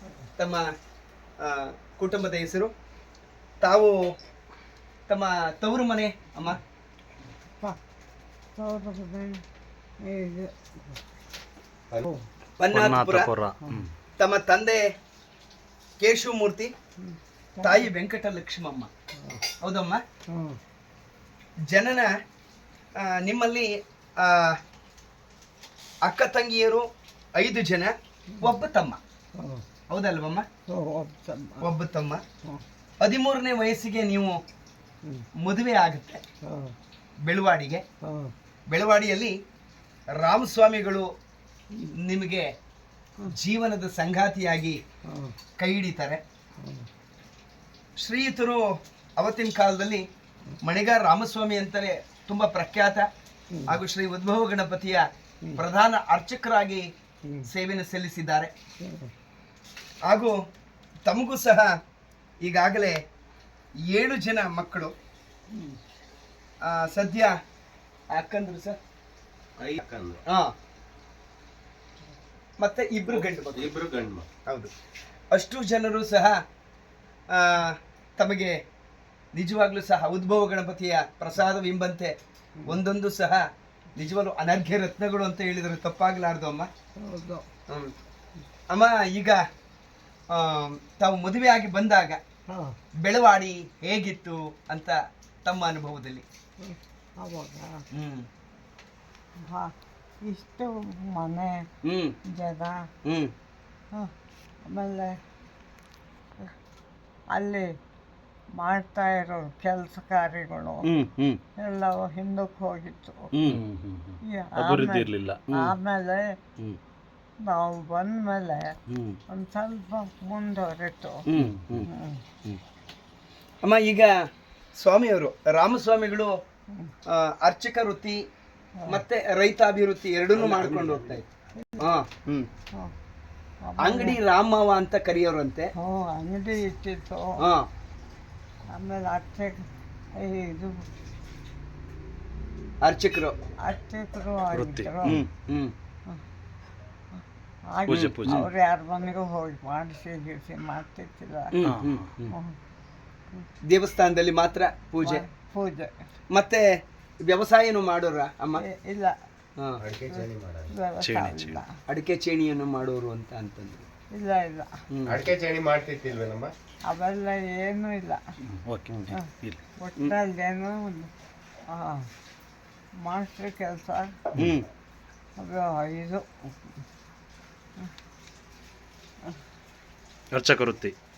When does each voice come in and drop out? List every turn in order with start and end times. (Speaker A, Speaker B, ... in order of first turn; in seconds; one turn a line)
Speaker A: 0.4-0.6
Speaker A: 1.4-2.7
Speaker A: 3.6-3.9
Speaker A: 5.1-6.6
Speaker B: 8.6-9.4
Speaker B: 10.0-10.5
Speaker A: 12.6-13.3
Speaker C: 12.7-13.9
Speaker A: 14.2-14.8
Speaker A: 16.0-16.7
Speaker B: 17.1-17.9
Speaker A: 17.6-18.9
Speaker A: 19.6-20.0
Speaker B: 20.3-20.6
Speaker A: 21.7-22.1
Speaker A: 23.0-24.6
Speaker A: 26.0-29.0
Speaker B: 29.4-29.6
Speaker A: 29.9-30.4
Speaker B: 30.7-31.7
Speaker A: 31.6-32.2
Speaker A: 33.0-34.4
Speaker A: 35.4-36.2
Speaker B: 36.5-36.7
Speaker A: 37.3-37.8
Speaker B: 38.0-38.3
Speaker A: 38.7-39.3
Speaker A: 40.2-41.1
Speaker A: 42.0-42.5
Speaker A: 43.2-44.8
Speaker A: 45.6-46.2
Speaker A: 48.0-48.6
Speaker A: 49.2-50.0
Speaker A: 50.6-53.0
Speaker A: 53.6-56.8
Speaker A: 57.4-58.5
Speaker B: 58.8-59.1
Speaker A: 60.1-60.3
Speaker A: 61.1-61.7
Speaker A: 62.4-63.0
Speaker A: 63.9-64.9
Speaker A: 66.6-67.3
Speaker A: 68.1-68.8
Speaker D: 69.6-70.2
Speaker A: 72.6-73.8
Speaker D: 73.1-74.3
Speaker A: 75.3-76.4
Speaker A: 77.3-78.6
Speaker A: 79.3-82.1
Speaker A: 82.7-83.4
Speaker A: 84.0-86.7
Speaker B: 87.0-87.5
Speaker A: 88.7-89.4
Speaker A: 90.3-92.2
Speaker B: 92.5-92.7
Speaker A: 93.0-96.2
Speaker B: 96.6-97.8
Speaker A: 97.9-98.3
Speaker B: 99.4-99.7
Speaker B: 100.2-101.6
Speaker A: 101.8-102.1
Speaker B: 102.3-102.8
Speaker A: 103.0-103.3
Speaker B: 104.7-105.1
Speaker B: 107.3-107.7
Speaker B: 108.6-110.8
Speaker A: 110.8-111.4
Speaker B: 111.6-113.2
Speaker A: 113.3-113.6
Speaker C: 113.5-115.4
Speaker B: 114.3-116.2
Speaker B: 117.4-118.7
Speaker A: 118.9-119.2
Speaker B: 119.3-121.2
Speaker A: 121.3-121.9
Speaker C: 121.4-121.7
Speaker B: 121.8-122.2
Speaker A: 123.6-124.1
Speaker A: 124.8-126.3
Speaker A: 127.1-128.2
Speaker A: 128.9-131.2
Speaker D: 130.3-131.2
Speaker A: 131.8-132.5
Speaker B: 133.7-134.2
Speaker A: 133.8-135.7
Speaker B: 135.8-137.3
Speaker B: 138.7-139.6
Speaker B: 140.2-140.7
Speaker A: 142.8-143.3
Speaker B: 143.6-145.2
Speaker C: 144.5-145.2
Speaker A: 145.0-145.7
Speaker B: 147.7-151.5
Speaker C: 147.9-148.5
Speaker A: 151.5-152.3
Speaker C: 151.6-152.1
Speaker A: 153.7-155.2
Speaker B: 155.0-155.9
Speaker A: 156.3-156.7
Speaker A: 157.2-158.6
Speaker B: 158.6-159.1
Speaker D: 159.8-160.7
Speaker B: 160.1-161.7
Speaker C: 161.0-161.6
Speaker A: 161.9-163.8
Speaker B: 164.1-164.7
Speaker A: 164.9-165.2
Speaker D: 165.1-166.5
Speaker B: 166.9-168.2
Speaker C: 168.4-169.6
Speaker B: 169.8-171.1
Speaker B: 171.7-172.1
Speaker B: 173.0-174.1
Speaker A: 174.3-174.6
Speaker B: 175.4-176.2
Speaker C: 180.3-180.9